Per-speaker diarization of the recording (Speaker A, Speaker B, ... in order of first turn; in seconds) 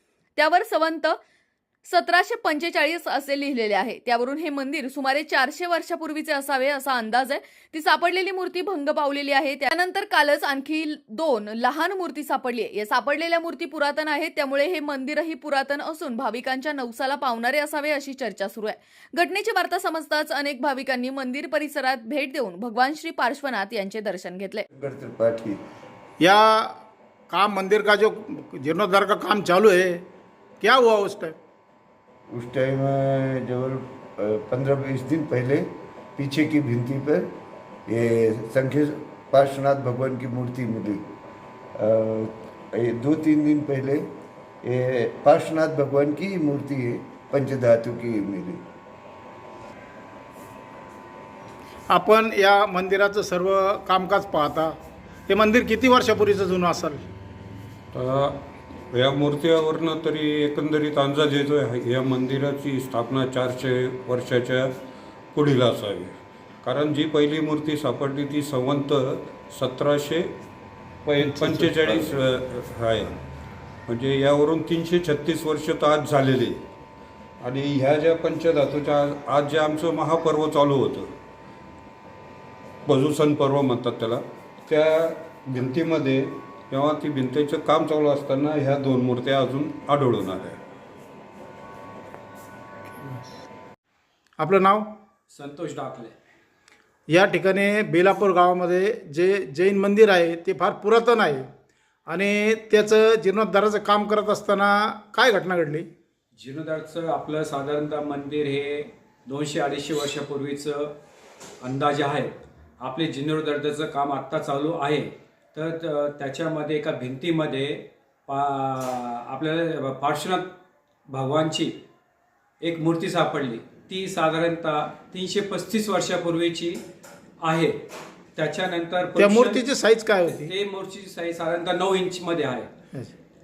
Speaker A: 0.3-1.2, 1.9-24.6
Speaker B: 24.7-25.6, 32.3-37.3, 37.9-41.0, 41.8-44.0, 44.6-48.6
Speaker C: 26.2-30.0, 30.6-31.4, 51.9-54.7, 55.3-57.0, 94.4-94.9, 97.1-101.5, 102.1-105.9, 129.2-130.5
Speaker D: 57.9-58.4, 58.9-64.7, 65.3-70.3, 71.0-73.2, 73.9-76.6, 77.4-81.1, 82.8-90.6
Speaker E: 95.3-96.1, 106.3-110.9, 111.6-120.5, 121.1-121.8, 122.6-126.8, 127.4-127.8, 128.3-129.7, 130.2-132.7